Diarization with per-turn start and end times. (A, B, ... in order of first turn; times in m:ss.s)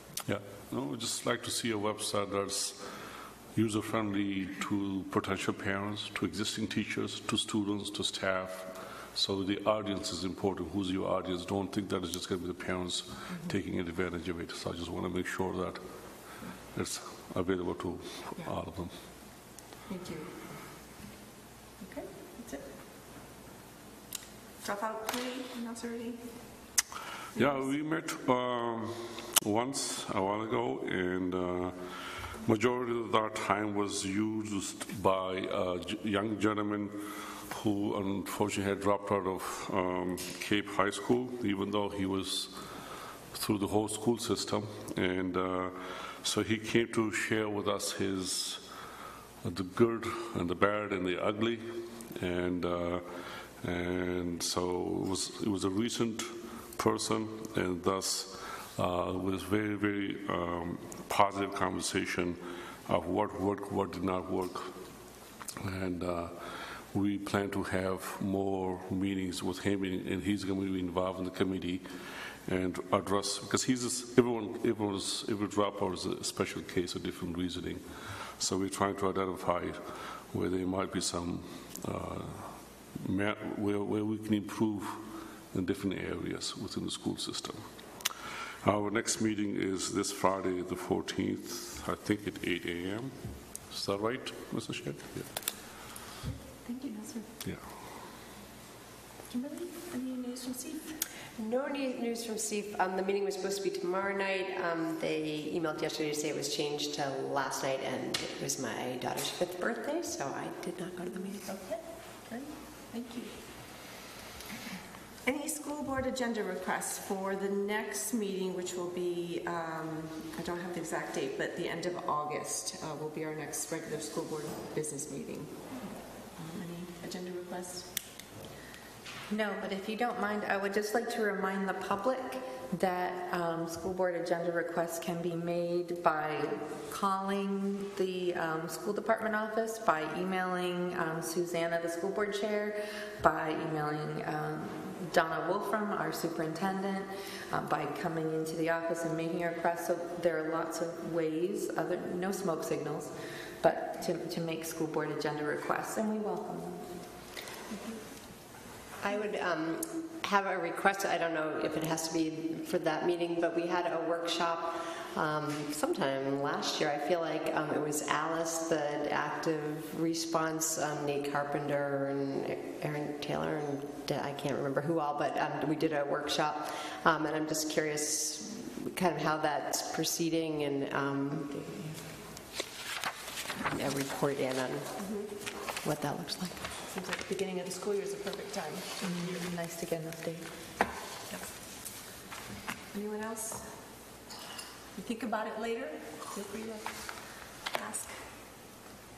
0:00.2-0:19.0 A
0:19.9-0:20.4 B
0:21.8-0:22.6 B
0:24.6-0:26.5 B
0:27.3-0:42.5 A
0:27.4-0:27.6 B
0:43.3-0:48.6 A
0:49.4-1:04.9 A
1:05.6-1:35.4 A
1:36.2-1:37.3 B
1:39.3-1:41.0 B
1:41.4-1:51.4 C
1:51.0-1:53.4 B
1:55.2-2:08.0 B
2:09.3-2:36.9 D
2:39.0-3:02.1 C
3:03.6-3:05.0 C
3:05.0-3:05.3 B
3:05.8-3:06.7 C
3:06.8-3:09.4 B
3:09.0-3:10.5 D
3:12.9-3:14.0 B
3:14.9-3:18.3 B